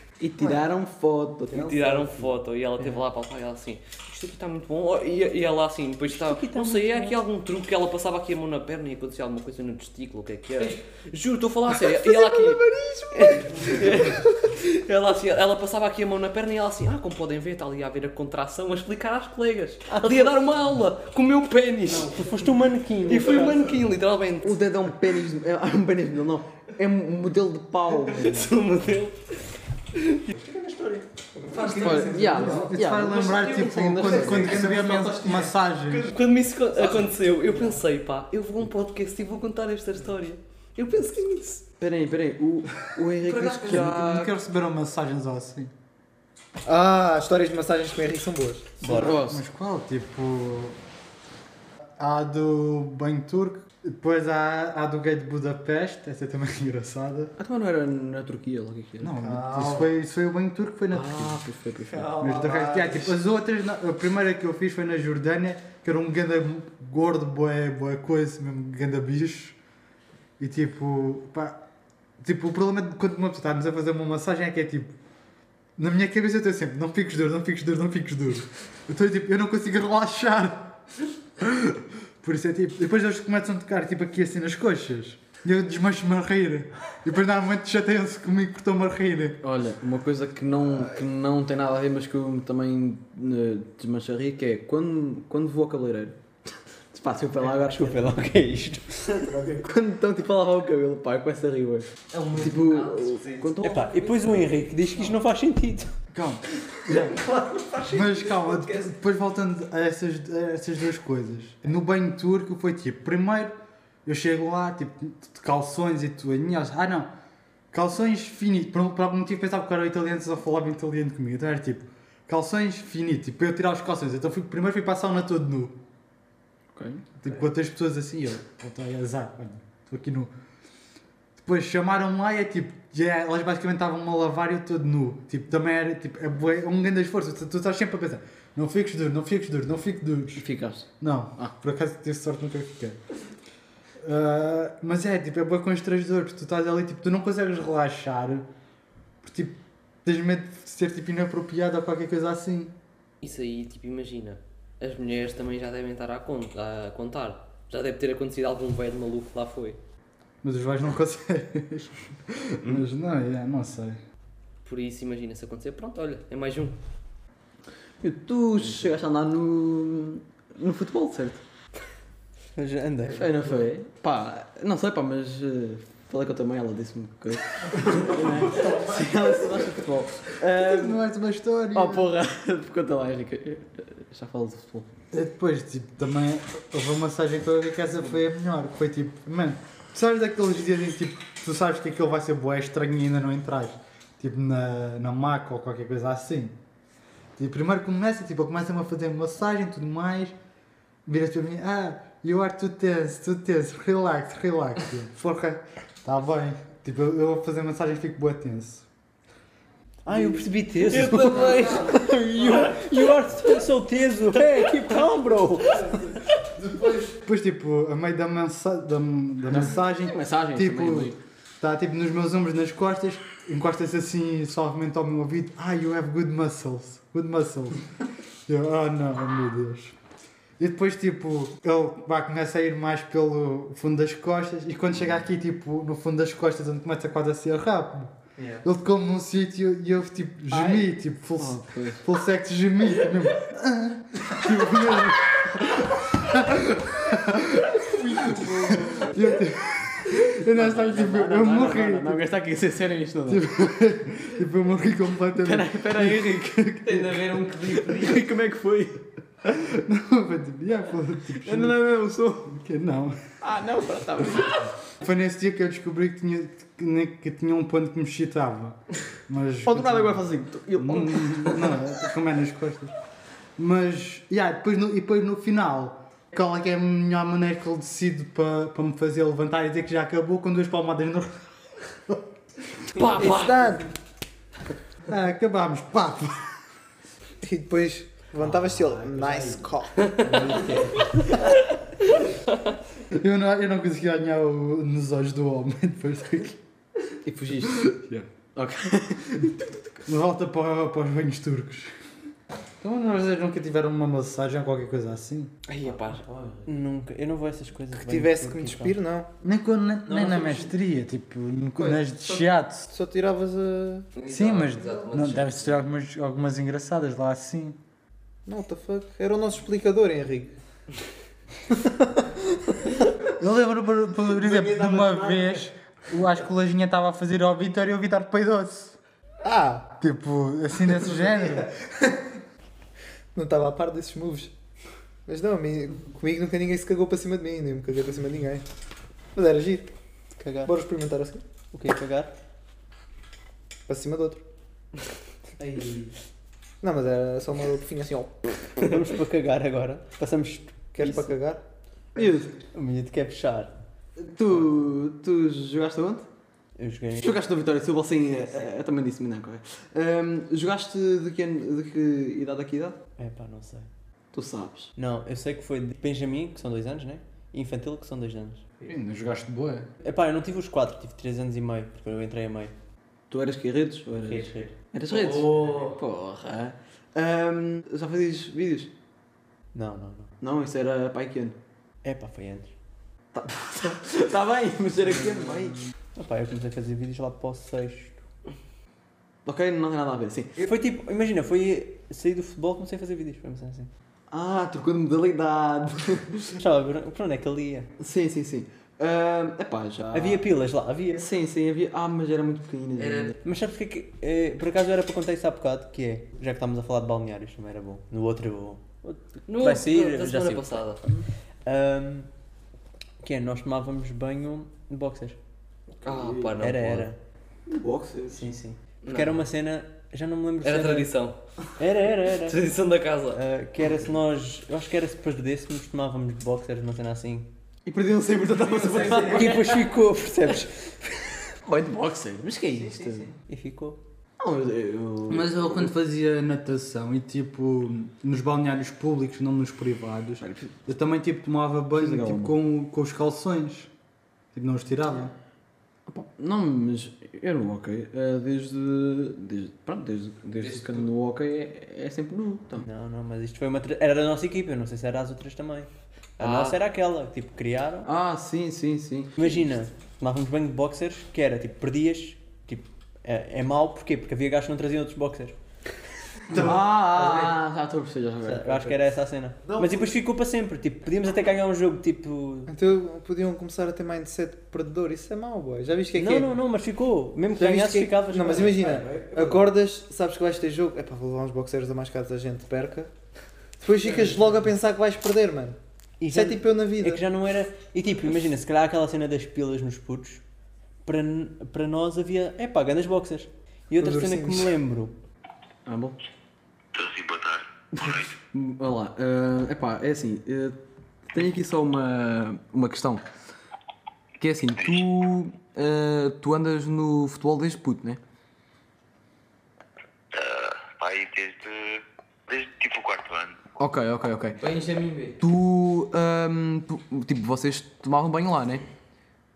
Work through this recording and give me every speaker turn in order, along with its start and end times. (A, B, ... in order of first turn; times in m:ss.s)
0:00.2-0:02.3 A
0:01.5-0:22.3 B
0:06.1-0:07.2 C
0:11.9-0:14.2 D
0:21.9-0:23.7 C
0:23.1-0:24.6 B
0:24.4-0:28.5 A
0:28.1-0:29.4 B
0:30.0-0:30.3 B
0:30.3-0:31.0 C
0:31.4-0:32.6 D
0:31.6-0:32.2 B
0:31.7-0:35.5 A
0:32.4-0:36.1 E
0:33.1-0:33.8 B
0:35.9-0:41.6 B
0:41.8-0:44.3 A
0:42.9-0:44.1 B
0:43.7-0:45.7 E
0:46.6-0:49.0 D
0:48.8-0:49.2 C
0:49.0-0:49.4 A
0:49.0-0:50.8 E
0:52.0-0:57.3 E
0:57.4-0:59.2 A
0:59.0-1:01.4 E
0:59.2-0:59.9 D
1:00.9-1:02.2 A
1:01.9-1:03.2 D
1:02.2-1:09.6 E
1:10.4-1:11.6 E
1:12.2-1:15.0 E
1:15.8-1:20.8 E
1:21.4-1:29.4 E
1:29.4-1:36.2 A
1:36.9-1:38.1 A
1:37.4-1:39.3 C
1:39.4-1:43.8 A
1:42.1-1:44.4 B
1:43.6-1:45.9 C
1:46.1-1:47.2 E
1:47.3-1:48.6 C
1:47.9-1:57.1 E
1:57.7-2:05.8 E
2:06.7-2:07.1 A
2:07.2-2:10.3 E
2:11.4-2:20.5 E
2:20.4-2:20.9 A
2:21.0-2:23.0 E
2:24.0-2:28.5 E
2:29.2-2:32.7 E
2:33.2-2:39.8 B
2:40.4-2:44.0 E
2:44.6-2:46.8 B
2:48.0-2:51.4 A
2:52.6-2:53.6 C
2:53.1-3:01.0 A
3:00.6-3:02.1 E
3:01.7-3:04.9 A
3:05.1-3:16.6 E
3:17.4-3:20.4 E
3:21.1-3:28.9 E
3:30.1-3:36.0 C
3:30.9-3:32.0 B
3:36.7-3:47.8 E
3:39.5-3:41.2 A
3:48.5-3:50.0 E
3:50.6-4:12.2 E
4:00.5-4:00.8 A
4:01.4-4:02.0 A
4:04.4-4:05.2 A
4:07.9-4:09.2 A
4:10.6-4:13.4 A
4:13.3-4:17.1 E
4:15.4-4:19.0 A
4:16.9-4:18.2 B
4:19.5-4:21.8 E
4:21.4-4:22.6 A
4:22.5-4:23.2 E
4:23.4-4:24.7 A
4:25.0-4:32.9 E
4:29.7-4:31.9 A
4:33.6-4:41.4 E
4:42.9-4:43.7 B
4:43.0-4:43.9 D
4:45.1-4:46.5 E
4:47.4-4:50.5 D
4:48.4-4:49.6 A
4:50.3-4:50.8 A
4:50.3-4:51.0 C
4:53.1-4:56.6 E
4:57.2-5:00.0 A
5:00.1-5:01.9 E
5:02.8-5:05.5 E
5:05.7-5:06.2 B
5:05.8-5:06.7 A
5:06.7-5:09.0 C
5:08.0-5:09.3 D
5:09.4-5:12.9 E
5:10.1-5:10.7 C
5:12.9-5:14.1 D
5:14.2-5:15.7 B
5:14.3-5:17.8 E
5:18.5-5:20.5 D
5:23.4-5:29.0 E
5:24.7-5:25.6 C
5:29.4-5:29.9 D
5:30.0-5:31.7 E
5:33.3-5:34.5 D
5:35.3-5:38.6 D
5:39.4-5:39.9 D
5:40.4-5:40.7 C
5:40.7-5:41.4 D
5:41.7-5:42.3 C
5:43.9-5:44.4 D
5:45.6-5:46.1 A
5:46.8-5:48.3 D
5:48.8-5:51.3 C
5:51.0-5:51.6 D
5:52.2-5:52.5 A
5:52.2-5:53.7 C
5:54.2-5:56.3 A
5:56.8-5:57.4 C
5:57.2-6:03.0 A
6:03.2-6:03.9 C
6:04.3-6:04.9 A
6:05.0-6:08.6 C
6:08.8-6:09.9 E
6:10.0-6:12.7 C
6:13.3-6:18.9 A
6:14.2-6:14.7 C
6:15.1-6:15.9 B
6:19.7-6:20.3 C
6:20.4-6:21.6 A
6:22.0-6:22.7 C
6:23.3-6:25.8 A
6:26.2-6:28.2 C
6:29.4-6:30.7 A
6:30.6-6:33.9 C
6:34.3-6:36.6 A
6:36.6-6:37.9 C
6:38.0-6:40.4 A
6:40.1-6:41.2 C
6:41.1-6:43.4 A
6:43.0-6:43.3 B
6:43.4-6:50.8 C
6:49.5-6:51.0 B
6:51.7-6:52.3 C
6:53.2-6:55.4 C
6:56.0-6:56.5 A
6:56.0-6:57.1 B
6:56.6-6:57.2 C
6:57.7-6:58.6 A
6:58.3-7:01.1 C
6:59.0-6:59.4 B
7:00.6-7:01.4 B
7:01.8-7:02.6 C
7:02.4-7:03.4 B
7:03.3-7:07.5 C
7:07.9-7:09.8 A
7:09.0-7:11.4 C
7:11.6-7:13.3 A
7:12.7-7:14.0 C
7:14.4-7:15.9 A
7:15.3-7:23.9 E
7:20.4-7:20.7 A
7:22.0-7:22.6 A
7:24.5-7:25.3 E
7:26.1-7:32.9 A
7:30.6-7:31.1 B
7:32.8-7:38.1 C
7:36.4-7:36.8 B
7:38.0-7:39.4 A
7:39.4-7:45.6 C
7:46.5-7:49.0 A
7:48.4-7:52.7 C
7:49.6-7:50.1 A
7:52.7-7:56.6 D
7:56.2-7:59.7 C
7:57.6-8:03.1 D
7:58.8-7:59.3 A
8:03.8-8:05.8 D
8:06.2-8:10.4 C
8:06.3-8:07.2 D
8:11.0-8:15.1 C
8:14.0-8:14.7 D
8:15.8-8:16.2 A
8:16.9-8:18.4 F
8:17.9-8:23.2 A
8:24.4-8:28.2 A
8:24.8-8:25.1 F
8:30.3-8:33.6 F
8:33.8-8:34.6 A
8:34.6-8:35.4 B
8:35.4-8:38.8 A